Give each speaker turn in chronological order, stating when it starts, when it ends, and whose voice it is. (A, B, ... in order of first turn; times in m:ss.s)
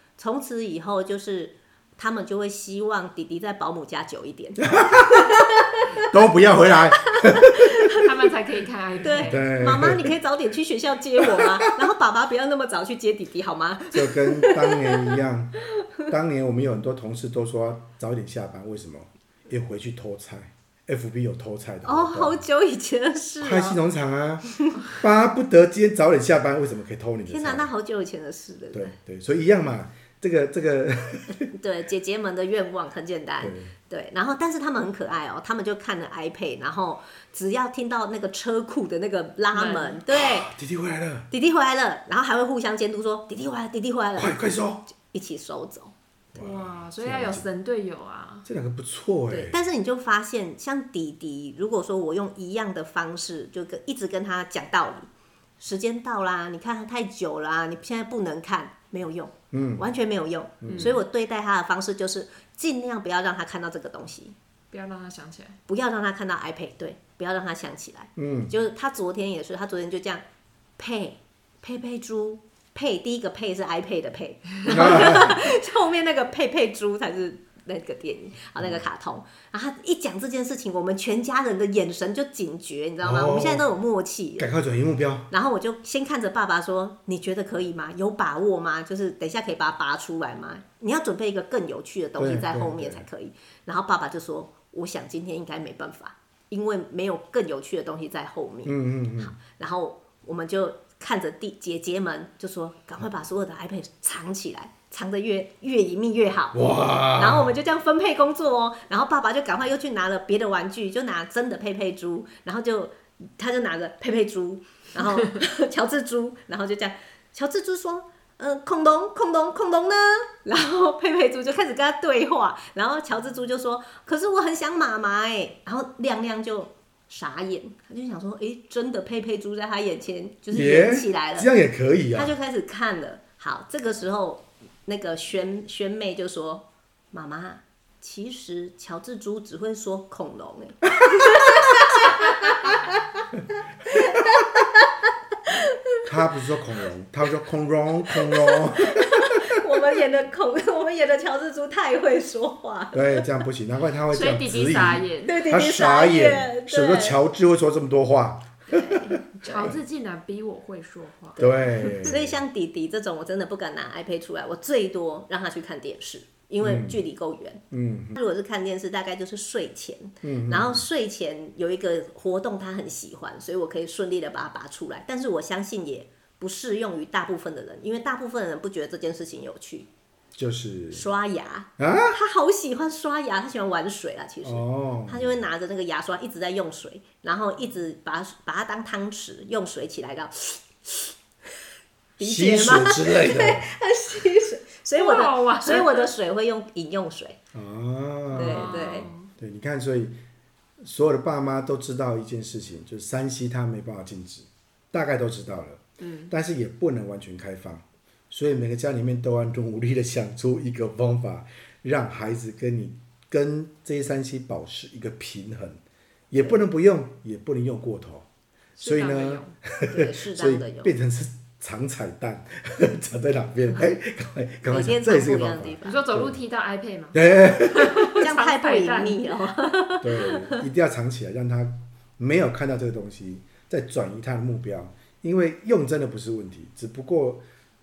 0:00.2-0:06.1 A
0:04.7-0:05.3 B
0:06.0-0:07.9 B
0:07.4-0:08.0 A
0:07.9-0:09.4 C
0:09.0-0:15.2 A
0:09.2-0:10.1 B
0:13.9-0:15.5 B
0:16.1-0:22.4 B
0:21.8-0:23.8 A
0:23.4-0:27.7 B
0:24.4-0:24.9 A
0:27.2-0:28.9 A
0:28.7-0:31.5 B
0:31.4-0:40.5 A
0:33.4-0:33.7 B
0:39.5-0:40.0 C
0:40.1-0:41.3 B
0:41.3-0:45.9 A
0:44.2-0:44.8 B
0:46.3-0:48.5 C
0:46.4-0:47.5 B
0:48.4-0:49.6 B
0:49.3-1:04.3 A
0:59.5-0:59.8 B
1:00.6-1:01.0 B
1:00.6-1:01.0 C
1:04.7-1:05.6 C
1:05.7-1:10.2 A
1:08.2-1:08.5 B
1:10.8-1:24.5 A
1:14.6-1:15.4 B
1:23.0-1:23.7 B
1:24.4-1:25.3 B
1:25.3-2:11.5 A
1:32.2-1:33.1 B
1:38.6-1:39.3 B
1:46.5-1:47.6 B
2:10.5-2:12.3 B
2:12.1-2:23.2 A
2:23.8-2:26.0 A
2:26.0-2:29.4 B
2:28.2-2:33.3 A
2:32.9-2:38.6 B
2:34.1-2:35.4 C
2:35.2-2:37.2 A
2:38.7-2:39.8 A
2:38.7-2:42.0 C
2:41.4-2:42.4 B
2:41.4-2:59.9 A
2:46.6-2:47.0 B
2:47.7-2:48.2 B
2:50.2-2:50.8 B
3:00.4-3:01.0 B
3:00.9-3:11.1 A
3:01.8-3:02.2 B
3:04.4-3:05.4 B
3:12.2-3:13.7 B
3:12.2-3:17.4 A
3:14.9-3:16.1 C
3:17.5-3:20.2 B
3:18.3-3:19.3 C
3:18.3-3:19.1 A
3:20.8-3:35.8 B
3:26.0-3:26.3 C
3:36.3-3:38.2 B
3:38.8-3:39.5 C
3:38.8-3:46.4 B
3:39.9-3:40.9 A
3:44.7-3:46.0 A
3:45.8-3:49.5 C
3:47.1-3:48.3 B
3:48.2-3:50.6 A
3:50.0-3:57.4 B